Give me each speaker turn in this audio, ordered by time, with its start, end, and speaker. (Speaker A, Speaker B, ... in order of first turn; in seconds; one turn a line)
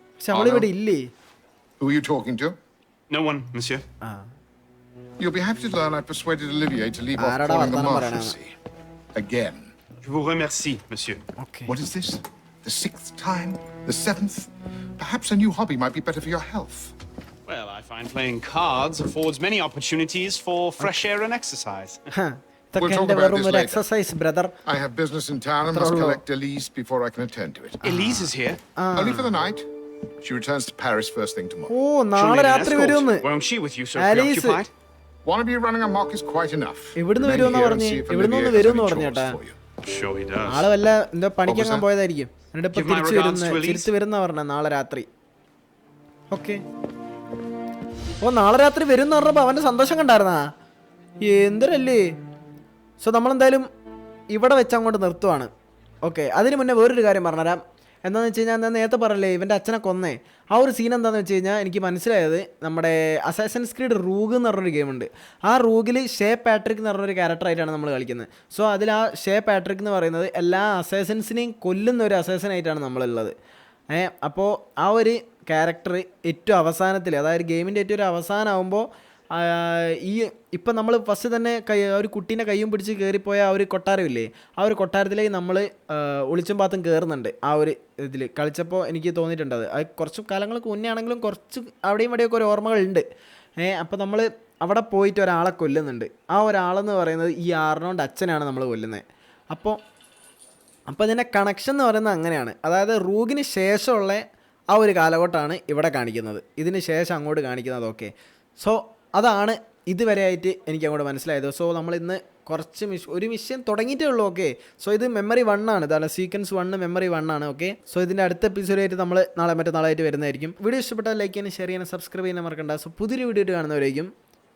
Speaker A: 0.2-1.0
Speaker B: 0.3-0.7
Speaker B: 1.8-2.6
Speaker C: 3.1-3.8
Speaker A: 4.0-4.3
Speaker B: 5.2-8.5
Speaker A: 7.2-8.3
Speaker B: 9.1-9.7
Speaker C: 10.0-11.2
Speaker A: 11.4-11.8
Speaker B: 11.7-16.9
Speaker C: 17.5-22.0
Speaker A: 20.8-21.1
Speaker A: 22.1-24.5
Speaker B: 22.8-23.8
Speaker B: 24.6-27.8
Speaker A: 25.7-26.2
Speaker C: 27.8-28.6
Speaker A: 27.8-29.4
Speaker B: 28.9-29.6
Speaker B: 30.2-31.7
Speaker A: 31.7-33.2
Speaker C: 32.1-34.7
Speaker A: 34.0-34.6
Speaker B: 35.2-39.6
Speaker A: 37.0-39.4
Speaker C: 39.8-40.7
Speaker A: 40.5-45.1
Speaker B: 41.4-41.9
Speaker C: 42.7-43.9
Speaker A: 46.3-46.6
Speaker A: 48.2-50.5
Speaker A: 51.2-52.0
Speaker A: 53.0-53.7
Speaker A: 54.3-55.5
Speaker A: 56.0-73.3
Speaker A: 73.9-93.0
Speaker A: 93.6-99.8
Speaker A: 100.9-124.1